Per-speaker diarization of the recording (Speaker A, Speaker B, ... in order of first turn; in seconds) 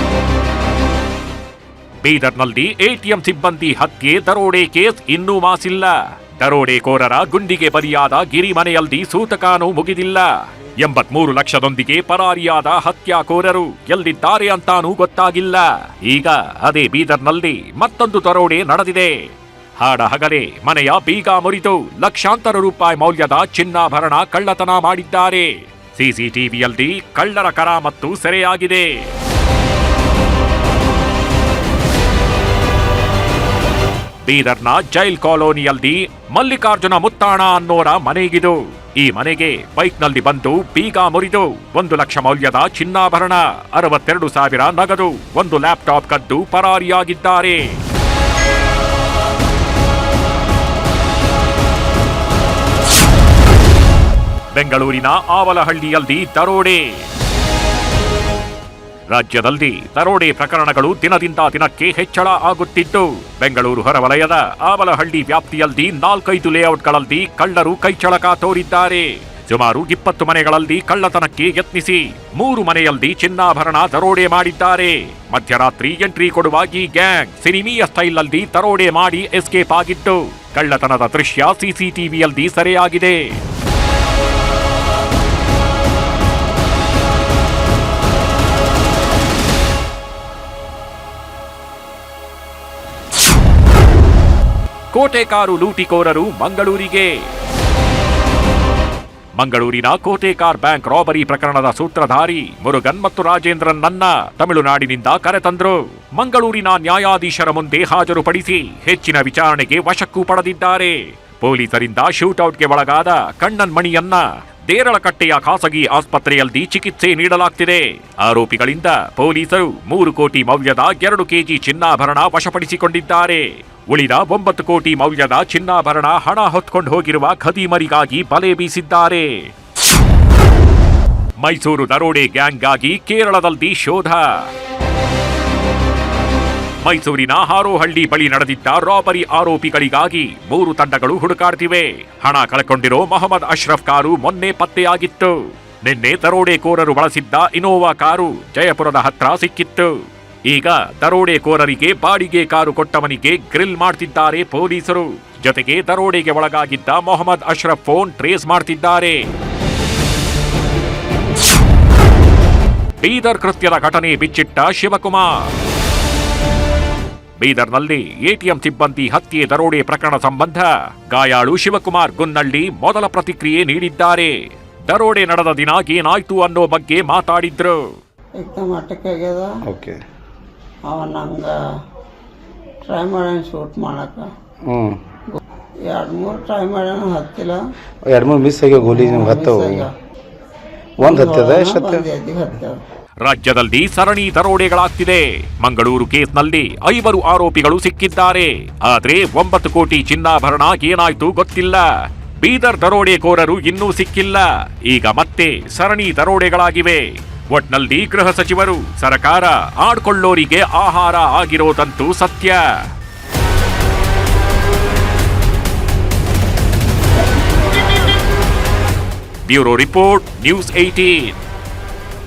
Speaker A: 2.0-19.2, 19.8-29.1, 34.2-47.8, 54.5-57.0, 59.1-83.4, 94.9-97.1, 99.4-129.4, 131.4-134.5, 136.8-149.9, 150.5-159.3, 163.0-165.5, 167.4-174.3, 174.9-177.8, 193.2-201.9, 202.4-212.6, 219.5-221.4
Speaker B: 178.4-179.5, 180.8-181.6, 182.8-184.3, 185.3-187.6, 188.8-189.9, 191.0-192.8
Speaker C: 179.7-180.0, 184.6-185.0, 188.0-189.9, 191.0-192.1